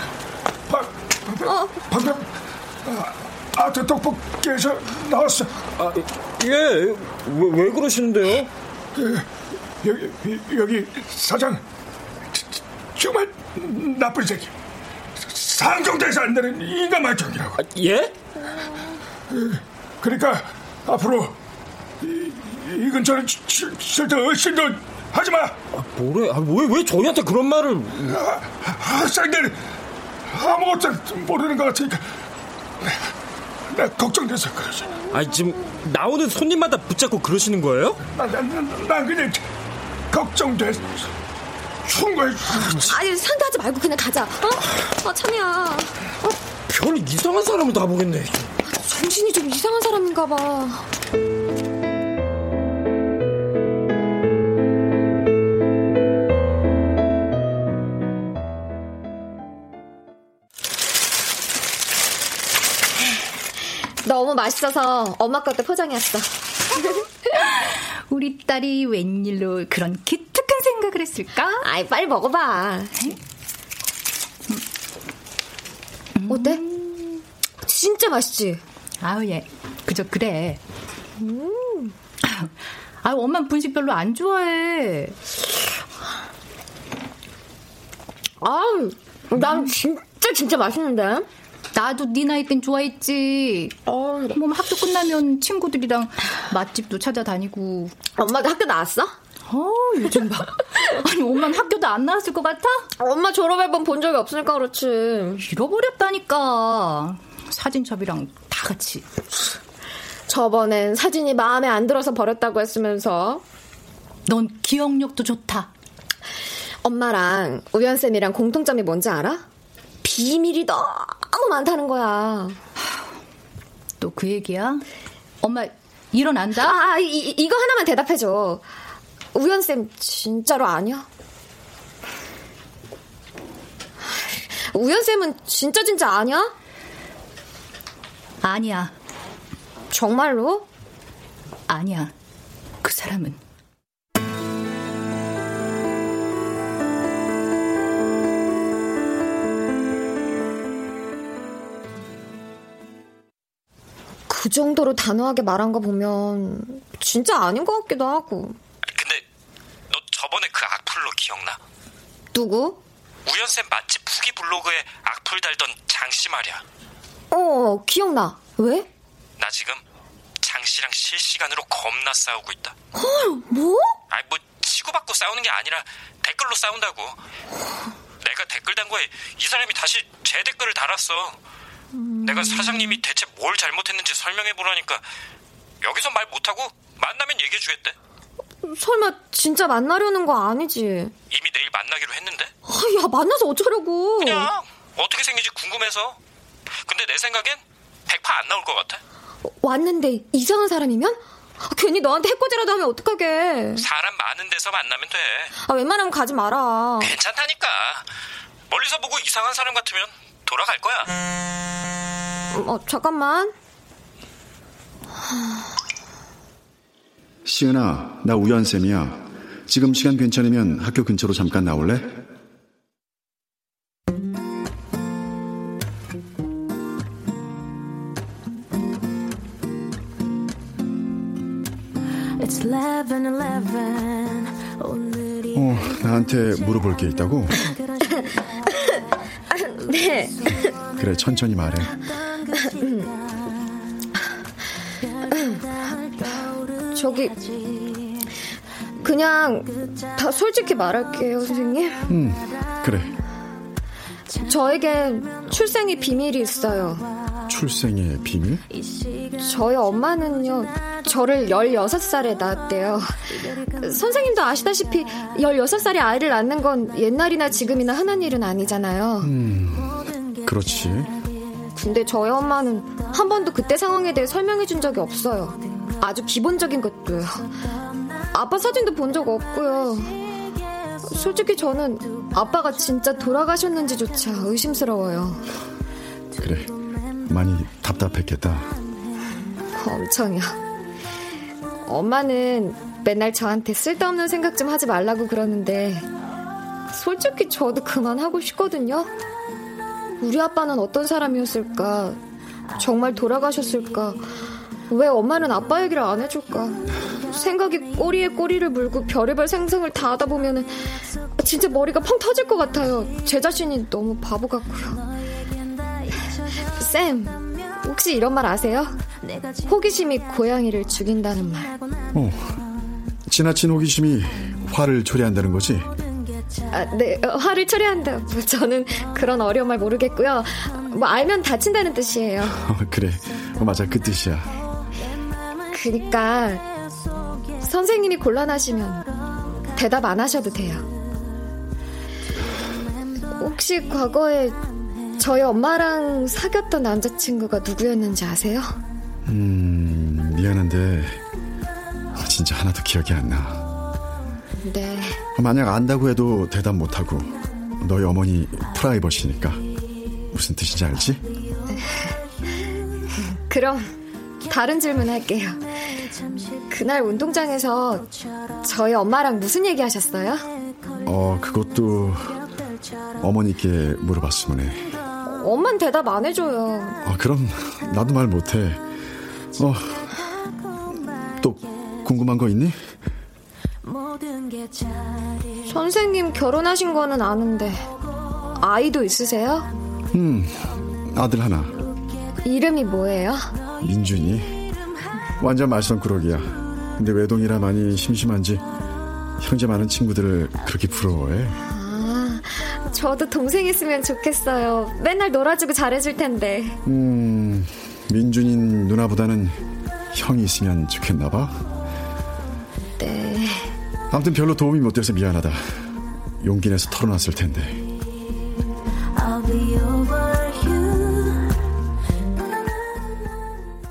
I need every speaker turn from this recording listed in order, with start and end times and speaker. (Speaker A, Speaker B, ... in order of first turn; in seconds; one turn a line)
Speaker A: 0.7-2.2
Speaker B: 1.4-1.8
Speaker A: 2.9-5.5
Speaker C: 5.8-8.5
Speaker A: 8.9-9.3
Speaker A: 9.8-11.6
Speaker A: 12.3-14.5
Speaker A: 15.2-17.6
Speaker C: 17.6-18.1
Speaker A: 19.3-21.3
Speaker A: 22.0-25.6
Speaker C: 25.7-28.1
Speaker A: 28.1-29.6
Speaker A: 30.3-32.1
Speaker A: 33.7-35.0
Speaker C: 35.1-38.0
Speaker A: 38.1-39.4
Speaker A: 40.1-41.1
Speaker A: 41.8-43.0
Speaker B: 42.8-46.3
Speaker C: 46.7-48.5
Speaker B: 48.7-50.9
Speaker B: 64.0-67.0
Speaker D: 67.4-71.6
Speaker B: 71.6-72.9
Speaker D: 76.2-77.2
Speaker B: 76.3-76.6
Speaker B: 77.7-78.6
Speaker D: 79.0-80.6
Speaker B: 81.2-82.0
Speaker D: 83.0-85.2
Speaker B: 88.4-91.3
Speaker D: 91.7-93.8
Speaker B: 93.9-94.4
Speaker D: 94.3-98.0
Speaker B: 98.2-99.2
Speaker D: 99.5-102.9
Speaker B: 103.0-105.4
Speaker D: 105.4-109.1
Speaker B: 110.3-113.4
Speaker D: 114.3-115.7
Speaker B: 116.8-119.4
Speaker B: 120.0-122.6
Speaker D: 124.0-124.8
Speaker D: 125.4-126.8
Speaker B: 126.6-128.6
Speaker B: 129.3-131.1
Speaker B: 134.1-136.5
Speaker D: 138.4-138.9
Speaker B: 139.9-140.7
Speaker D: 141.7-142.1
Speaker D: 142.8-143.4
Speaker B: 154.3-158.6
Speaker C: 158.9-159.2
Speaker C: 159.9-161.6
Speaker B: 162.3-162.8
Speaker C: 163.2-166.6
Speaker B: 167.3-168.9
Speaker C: 169.4-169.8
Speaker C: 170.4-172.7
Speaker B: 173.0-173.9
Speaker C: 174.1-177.2
Speaker C: 178.2-181.4
Speaker B: 181.9-183.0
Speaker C: 182.2-185.1
Speaker C: 185.8-187.9
Speaker B: 188.6-191.1
Speaker C: 191.3-192.5
Speaker B: 192.7-194.5
Speaker C: 194.2-196.2
Speaker C: 196.9-199.0
Speaker B: 199.6-203.8
Speaker C: 203.8-205.5
Speaker B: 205.6-207.1
Speaker C: 207.0-208.1
Speaker C: 208.7-211.1
Speaker B: 212.5-213.5
Speaker B: 215.3-215.7
Speaker E: 217.4-222.2
Speaker E: 235.5-237.6
Speaker B: 239.5-240.7
Speaker E: 241.0-241.9
Speaker B: 242.6-243.1
Speaker B: 245.3-245.6
Speaker B: 246.9-247.6
Speaker B: 249.0-252.0
Speaker E: 252.1-253.2
Speaker B: 254.4-257.1
Speaker E: 257.5-258.6
Speaker B: 259.4-263.2
Speaker B: 263.8-269.3
Speaker E: 269.2-271.1
Speaker B: 271.8-277.5
Speaker B: 278.3-280.2
Speaker B: 281.1-285.4
Speaker E: 286.4-286.7
Speaker E: 287.2-288.7
Speaker B: 289.8-290.6
Speaker B: 291.9-296.1
Speaker B: 296.9-299.1
Speaker B: 300.2-302.2
Speaker B: 302.8-304.2
Speaker B: 304.9-315.0
Speaker B: 316.8-319.0
Speaker B: 319.7-321.8
Speaker E: 322.1-322.5
Speaker E: 323.3-325.9
Speaker B: 326.7-332.6
Speaker E: 332.6-334.5
Speaker B: 335.7-336.6
Speaker B: 337.6-339.1
Speaker B: 339.7-340.9
Speaker B: 343.2-344.6
Speaker B: 345.2-348.8
Speaker E: 349.3-351.2
Speaker E: 352.1-353.7
Speaker B: 354.6-355.2
Speaker E: 355.4-359.6
Speaker E: 360.3-361.2
Speaker B: 361.7-362.1
Speaker B: 363.3-363.9
Speaker B: 364.5-368.1
Speaker B: 368.6-370.4
Speaker E: 371.0-372.4
Speaker E: 373.2-374.9
Speaker B: 375.2-377.0
Speaker E: 377.0-378.8
Speaker E: 379.6-380.1
Speaker E: 381.4-382.8
Speaker B: 385.7-387.9
Speaker B: 388.6-389.7
Speaker E: 390.1-391.8
Speaker B: 392.4-393.5
Speaker E: 393.8-394.6
Speaker E: 395.4-398.6
Speaker E: 399.4-401.6
Speaker B: 401.7-406.8
Speaker E: 406.9-411.6
Speaker B: 413.0-413.7
Speaker E: 414.1-415.9
Speaker E: 416.4-417.8